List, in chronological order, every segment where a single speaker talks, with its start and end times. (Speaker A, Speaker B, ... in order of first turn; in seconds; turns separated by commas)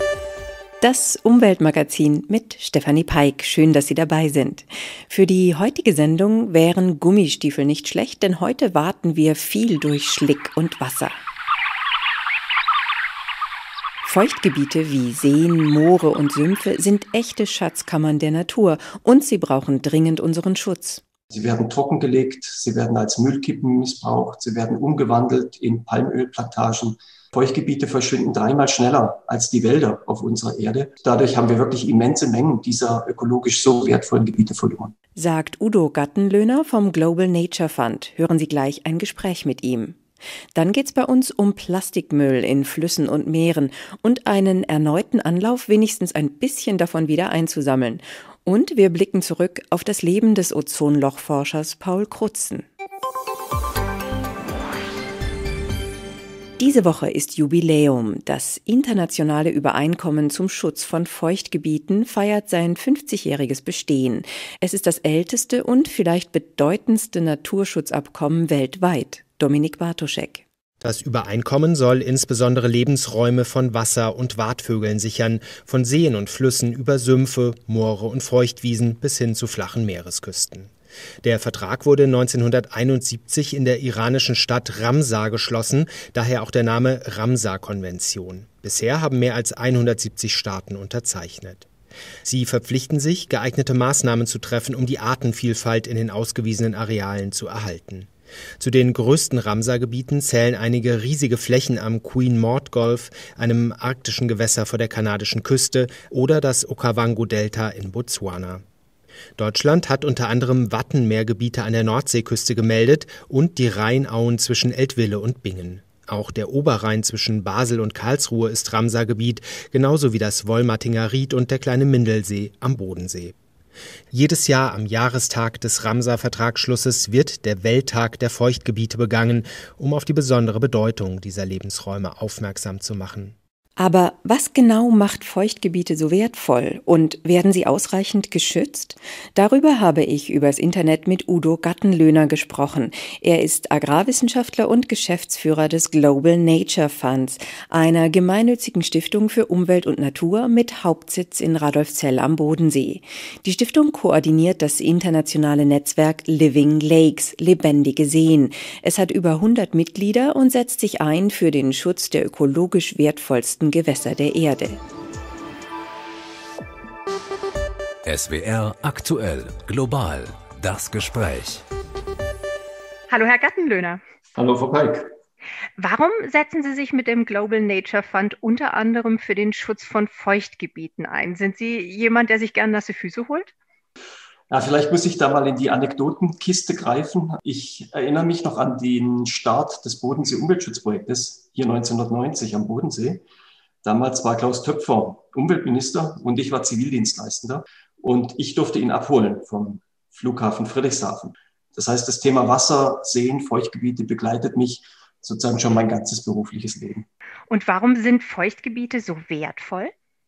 Speaker A: 0.8-11.2, Speaker A: 14.0-21.0, Speaker B: 21.3-34.9, Speaker A: 35.2-40.0, Speaker A: 40.5-52.7, Speaker A: 56.6-70.4, Speaker C: 70.8-80.7, Speaker C: 81.2-91.7, Speaker C: 92.2-108.6, Speaker C: 109.4-123.4, Speaker C: 124.1-133.3, Speaker A: 133.8-164.8, Speaker D: 168.1-171.6, Speaker E: 173.1-174.0, Speaker B: 174.4-175.1, Speaker E: 175.8-183.5, Speaker B: 184.5-193.2, Speaker B: 193.8-207.1, Speaker E: 207.5-209.9